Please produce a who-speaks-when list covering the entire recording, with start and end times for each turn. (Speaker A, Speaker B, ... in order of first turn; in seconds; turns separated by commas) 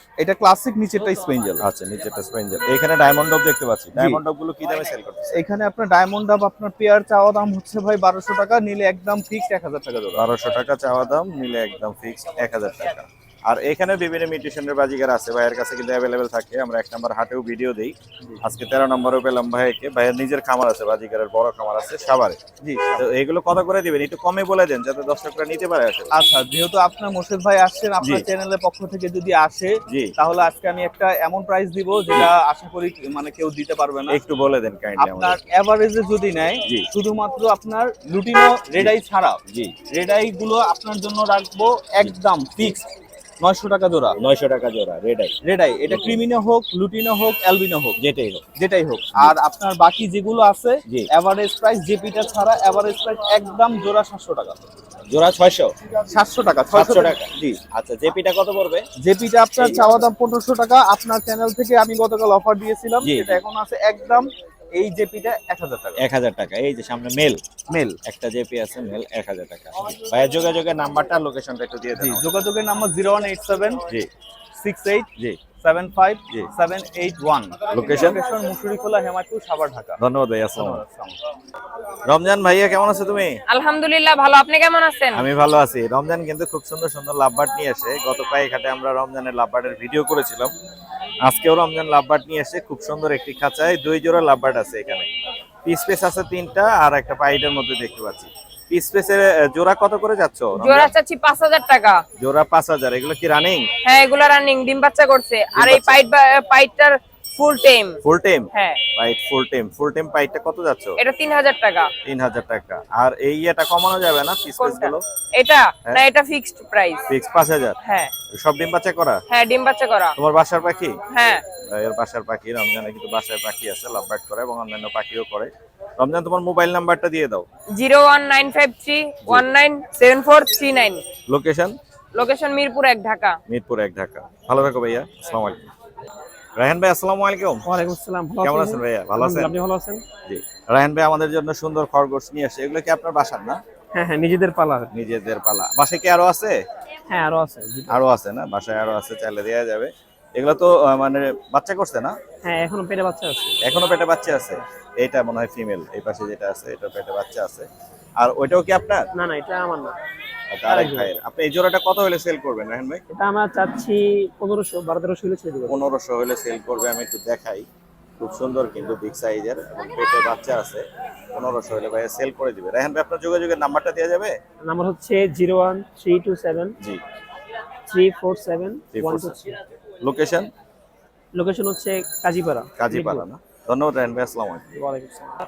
Speaker A: 0.2-1.6, Speaker B: 1.6-5.4, Speaker A: 5.3-10.2, Speaker B: 10.2-22.4, Speaker A: 22.6-23.1, Speaker B: 23.0-26.1, Speaker A: 26.1-34.2, Speaker B: 29.9-30.1, Speaker B: 34.1-35.4, Speaker A: 35.0-42.9, Speaker B: 39.5-39.8, Speaker B: 42.0-42.7, Speaker A: 43.4-44.2, Speaker B: 44.2-45.4, Speaker A: 45.4-48.0, Speaker B: 48.0-48.4, Speaker A: 48.6-54.6, Speaker B: 55.1-55.7, Speaker A: 56.1-57.6, Speaker B: 56.7-58.9, Speaker A: 59.0-66.0, Speaker B: 59.6-59.9, Speaker B: 63.0-63.4, Speaker B: 66.0-67.4, Speaker A: 67.7-68.0, Speaker B: 68.0-72.2, Speaker A: 72.0-73.8, Speaker A: 74.6-75.1, Speaker A: 75.6-80.0, Speaker B: 77.7-78.2, Speaker B: 80.0-80.8, Speaker A: 80.6-81.2, Speaker B: 82.1-83.4, Speaker C: 83.5-85.2, Speaker B: 85.1-90.5, Speaker B: 91.2-95.1, Speaker B: 95.7-101.0, Speaker C: 100.6-102.0, Speaker B: 102.2-103.7, Speaker C: 103.8-108.0, Speaker B: 105.5-106.0, Speaker B: 108.0-111.0, Speaker C: 108.5-108.8, Speaker C: 111.0-111.9, Speaker B: 112.0-115.0, Speaker C: 114.5-117.0, Speaker B: 117.1-117.8, Speaker C: 117.8-118.1, Speaker B: 118.3-119.2, Speaker C: 119.3-120.2, Speaker B: 120.2-121.0, Speaker C: 121.1-121.4, Speaker B: 121.7-127.5, Speaker C: 127.7-131.0, Speaker B: 129.2-129.5, Speaker B: 131.3-131.8, Speaker C: 132.1-133.4, Speaker B: 133.5-135.7, Speaker B: 136.6-137.7, Speaker B: 138.4-139.6, Speaker C: 138.4-138.8, Speaker C: 139.4-140.0, Speaker B: 140.3-143.6, Speaker B: 144.9-146.6, Speaker B: 147.9-152.2, Speaker B: 153.6-157.7, Speaker B: 158.2-159.1, Speaker D: 159.2-159.9, Speaker B: 160.5-163.0, Speaker D: 163.2-164.0, Speaker B: 165.7-167.7, Speaker B: 168.2-174.3, Speaker D: 175.0-175.8, Speaker D: 177.9-178.7, Speaker B: 178.9-179.5, Speaker C: 179.0-179.3, Speaker B: 180.0-180.5, Speaker D: 181.4-182.0, Speaker B: 182.8-184.7